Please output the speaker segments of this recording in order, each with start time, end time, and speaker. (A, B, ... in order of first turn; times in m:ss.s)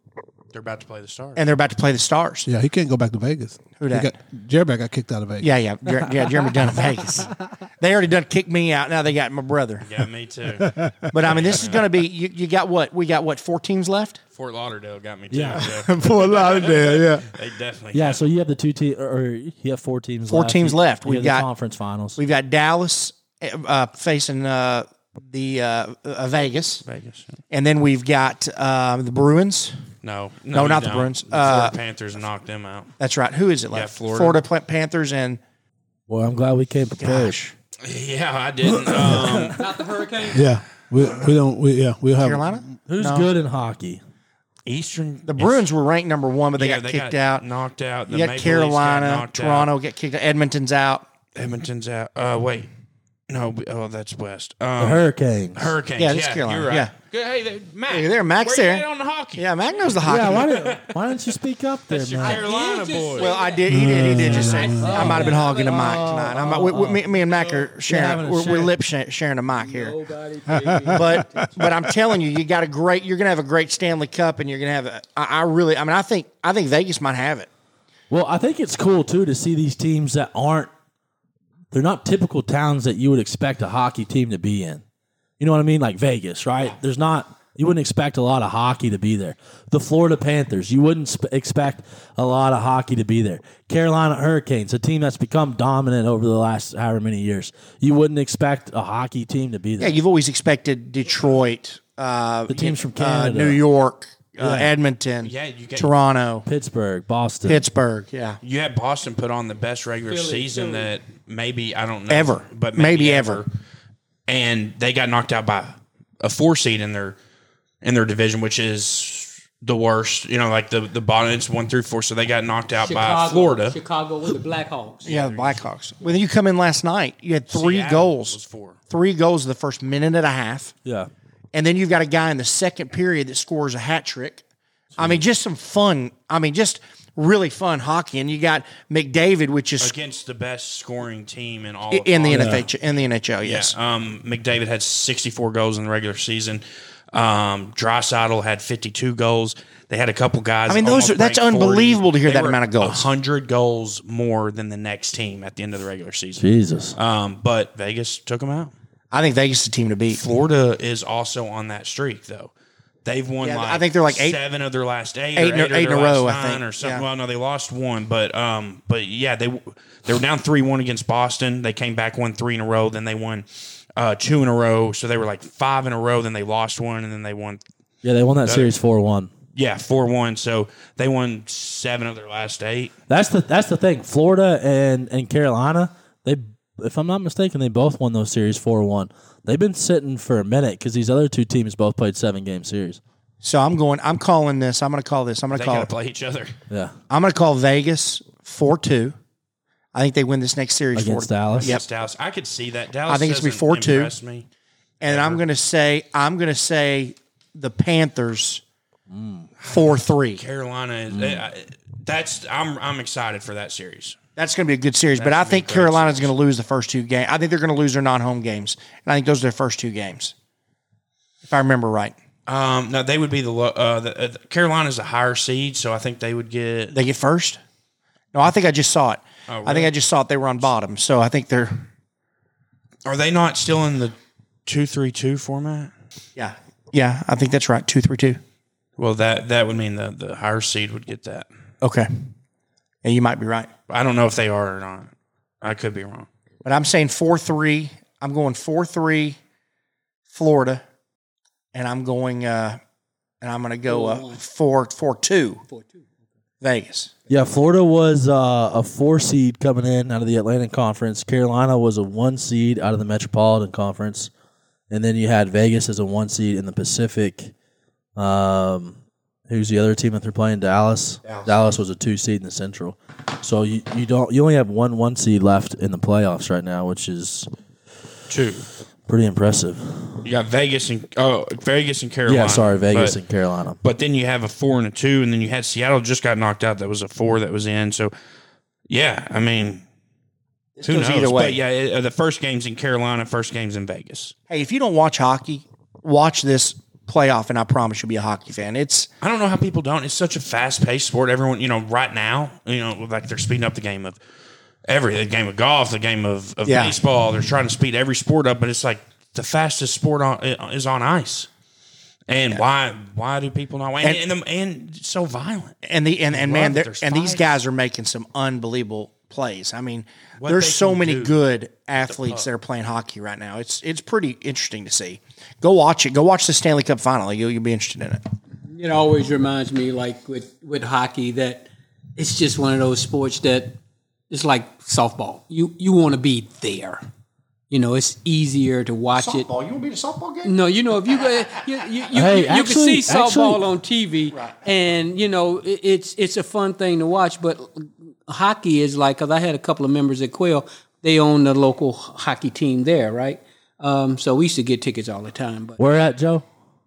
0:00.5-0:01.4 A
0:01.4-0:02.5 B
0:02.5-0:05.5 C
0:03.8-0:04.1 B
0:05.4-0:09.9 B
0:09.8-0:12.0 A
0:10.6-0:11.1 C
0:11.1-0:14.2 B
0:14.4-0:18.2 A
0:15.3-0:15.7 D
0:15.6-0:17.3 C
0:17.9-0:22.2 D
0:20.3-0:21.5 B
0:22.2-0:26.8 B
0:26.8-0:27.4 A
0:27.5-0:29.8 B
0:30.0-0:32.9 A
0:30.5-0:31.7 B
0:33.0-0:35.4 B
0:33.7-0:34.4 A
0:36.1-0:37.4 D
0:37.0-0:37.5 B
0:37.8-0:39.6 A
0:38.9-0:39.6 D
0:39.4-0:40.5 E
0:40.3-0:42.7 C
0:42.2-0:43.3 B
0:42.9-0:44.0 D
0:44.7-0:45.7 A
0:45.3-0:47.4 B
0:46.6-0:49.7 A
0:48.1-0:51.1 B
0:51.4-0:52.7 A
0:53.3-0:55.0 A
0:54.8-0:55.7 D
0:55.6-1:01.0 A
0:56.0-0:56.9 B
0:57.9-0:58.8 B
0:59.4-1:00.8 B
1:00.0-1:02.4 D
1:01.9-1:03.4 A
1:02.2-1:06.0 E
1:03.2-1:10.0 B
1:03.7-1:05.3 C
1:04.8-1:07.1 D
1:07.8-1:08.7 D
1:09.6-1:11.5 E
1:10.5-1:12.1 C
1:10.9-1:17.5 B
1:18.1-1:20.7 D
1:21.7-1:24.8 D
1:25.4-1:40.0 D
1:39.8-1:46.5 B
1:42.5-1:43.6 D
1:44.4-1:44.7 C
1:45.2-1:45.9 A
1:46.5-1:47.6 D
1:47.5-1:48.4 B
1:48.4-1:53.5 A
1:50.1-1:50.9 E
1:52.1-1:53.4 B
1:54.3-1:57.2 A
1:57.8-2:03.8 A
2:02.8-2:05.1 E
2:05.0-2:06.2 A
2:05.1-2:08.4 B
2:07.5-2:08.8 A
2:08.9-2:10.8 B
2:10.8-2:11.1 D
2:11.5-2:14.4 B
2:15.0-2:15.2 D
2:15.0-2:20.0 B
2:19.8-2:22.7 A
2:21.9-2:23.8 B
2:22.3-2:22.6 C
2:23.4-2:36.4 A
2:30.7-2:33.1 B
2:36.4-2:37.0 D
2:37.0-2:38.7 A
2:39.1-2:40.2 B
2:40.1-2:42.5 A
2:43.0-2:57.6 A
2:43.4-2:44.4 B
2:45.4-2:47.0 B
2:58.0-2:59.3 D
2:58.4-2:58.7 A
2:59.5-3:02.9 A
3:03.1-3:13.0 D
3:13.4-3:15.9 B
3:15.5-3:16.6 A
3:17.1-3:19.2 B
3:19.9-3:21.8 B
3:20.9-3:21.7 D
3:21.6-3:24.5 A
3:23.1-3:24.1 B
3:25.0-3:28.6 B
3:25.1-3:25.4 A
3:29.1-3:29.5 D
3:29.6-3:34.2 A
3:29.7-3:30.4 B
3:31.1-3:31.5 D
3:34.4-3:40.3 B
3:35.2-3:36.3 A
3:41.4-3:42.2 B
3:42.5-3:47.0 A
3:46.9-3:47.6 B
3:48.3-3:51.9 B
3:49.5-3:49.9 A
3:53.0-3:54.2 A
3:54.7-3:55.9 A
3:56.4-3:58.4 B
3:59.0-4:01.5 A
4:01.8-4:02.1 B
4:03.0-4:03.7 B
4:03.9-4:05.1 A
4:05.6-4:06.3 A
4:06.6-4:09.4 B
4:10.3-4:10.8 B
4:11.7-4:12.8 B
4:13.4-4:15.6 B
4:13.9-4:14.4 E
4:15.7-4:16.0 E
4:16.6-4:17.2 B
4:17.3-4:24.3 D
4:24.9-4:27.5 D
4:28.2-4:37.5 D
4:38.3-4:38.7 A
4:39.1-4:40.3 D
4:40.2-4:43.2 A
4:42.3-4:43.8 D
4:43.8-4:48.1 A
4:48.9-4:49.8 A
4:50.8-4:51.6 B
4:50.8-4:54.3 A
4:54.5-4:59.1 B
4:59.2-5:04.2 A
5:04.9-5:11.5 A
5:06.7-5:07.0 B
5:12.3-5:15.8 A
5:15.8-5:28.2 B
5:16.3-5:17.6 A
5:20.4-5:21.4 A
5:22.1-5:22.5 A
5:28.7-5:33.8 E
5:34.3-5:37.0 E
5:37.7-5:39.5 E
5:39.2-5:40.6 B
5:40.4-5:55.8 E
5:42.1-5:43.6 D
5:55.8-5:56.4 D